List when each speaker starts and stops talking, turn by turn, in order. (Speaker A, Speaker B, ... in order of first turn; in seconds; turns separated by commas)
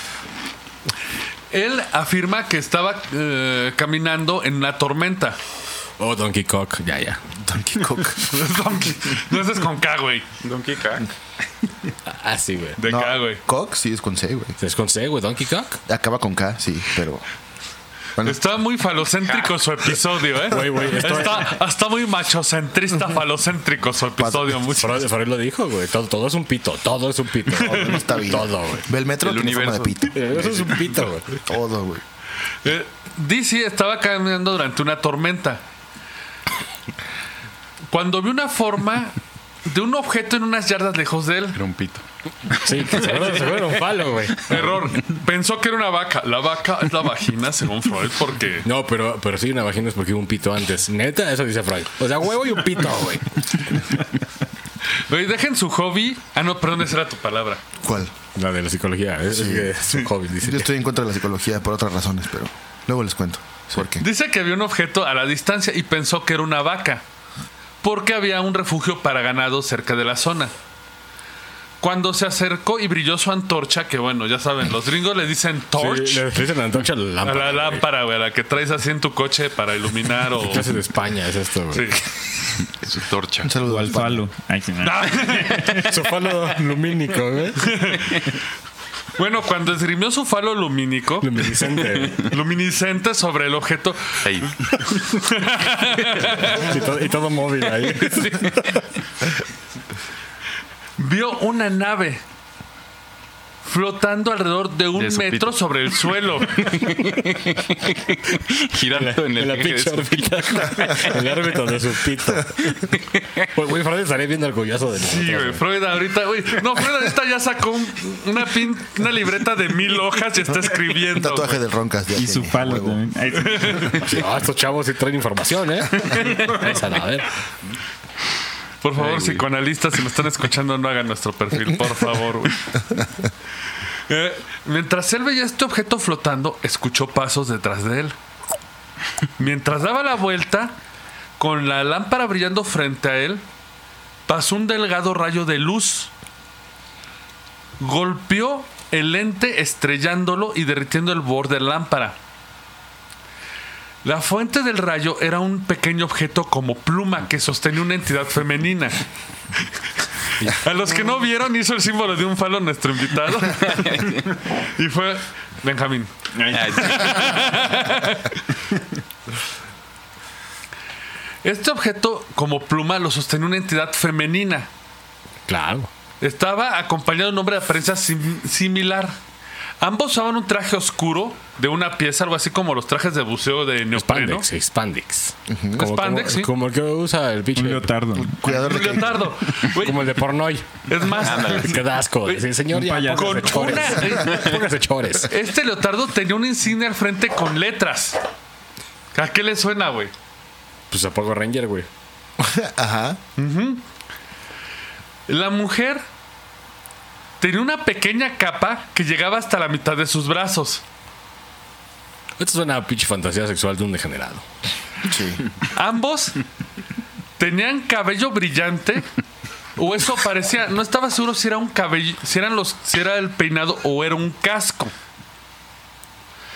Speaker A: 1.5-5.4, Speaker B: 6.0-7.2, Speaker C: 7.4-8.3, Speaker A: 8.2-10.3, Speaker D: 10.4-11.1, Speaker B: 12.1-12.8, Speaker A: 12.8-13.4, Speaker C: 12.9-14.6, Speaker B: 14.6-15.8, Speaker C: 15.9-17.2, Speaker A: 18.2-25.1, Speaker B: 20.5-21.6, Speaker C: 24.2-24.6, Speaker B: 24.8-28.9, Speaker C: 27.6-30.7, Speaker A: 27.6-28.0, Speaker D: 29.2-30.9, Speaker B: 30.1-31.4, Speaker C: 31.5-32.0, Speaker A: 32.6-35.6, Speaker A: 37.9-41.6, Speaker D: 41.5-43.0, Speaker B: 42.6-44.9, Speaker A: 44.5-48.7, Speaker B: 48.6-53.8, Speaker A: 55.1-57.6, Speaker C: 57.8-58.1, Speaker B: 58.4-60.7, Speaker C: 59.3-59.7, Speaker C: 60.4-64.0, Speaker A: 64.0-67.0, Speaker A: 67.8-70.5, Speaker A: 71.8-76.2, Speaker B: 75.8-77.9, Speaker A: 77.2-80.7, Speaker B: 80.4-82.0, Speaker A: 81.7-82.0, Speaker D: 82.7-83.5, Speaker C: 83.4-84.3, Speaker E: 83.6-85.9, Speaker A: 84.8-85.8, Speaker B: 85.8-87.8, Speaker A: 87.6-88.3, Speaker A: 89.2-91.4, Speaker B: 91.2-92.2, Speaker A: 92.2-96.8, Speaker D: 94.2-94.9, Speaker B: 96.5-98.8, Speaker A: 101.0-102.2, Speaker A: 103.7-106.9, Speaker D: 105.0-105.6, Speaker D: 106.5-111.1, Speaker B: 108.9-112.9, Speaker B: 113.5-115.6, Speaker A: 115.0-121.6, Speaker C: 121.1-123.0, Speaker E: 122.1-124.1, Speaker A: 123.4-124.0, Speaker B: 124.0-127.3, Speaker A: 128.8-132.7, Speaker D: 129.0-129.4, Speaker A: 134.1-138.2, Speaker A: 139.4-140.8, Speaker A: 141.4-143.4, Speaker A: 144.3-146.1, Speaker A: 147.8-152.2, Speaker A: 154.0-159.0, Speaker A: 160.4-168.4, Speaker D: 163.6-164.2, Speaker E: 166.3-167.6, Speaker D: 166.5-167.6, Speaker A: 171.4-174.7, Speaker B: 175.5-175.9, Speaker A: 176.2-179.2, Speaker A: 179.8-184.5, Speaker B: 183.9-187.9, Speaker C: 185.5-185.8, Speaker A: 185.8-186.5, Speaker E: 187.6-188.7, Speaker C: 188.2-189.4, Speaker A: 188.4-190.2, Speaker B: 189.7-195.3, Speaker A: 190.9-192.5, Speaker D: 191.2-191.8, Speaker E: 192.7-193.9, Speaker A: 193.1-194.6, Speaker D: 194.1-194.6, Speaker A: 195.3-198.2, Speaker A: 199.1-200.1, Speaker B: 200.9-201.9, Speaker C: 202.4-203.2, Speaker A: 203.4-203.8, Speaker A: 205.3-206.0, Speaker A: 207.4-210.8, Speaker B: 212.4-214.4, Speaker C: 215.1-215.5, Speaker A: 215.7-216.4, Speaker A: 217.4-219.1, Speaker A: 219.8-224.9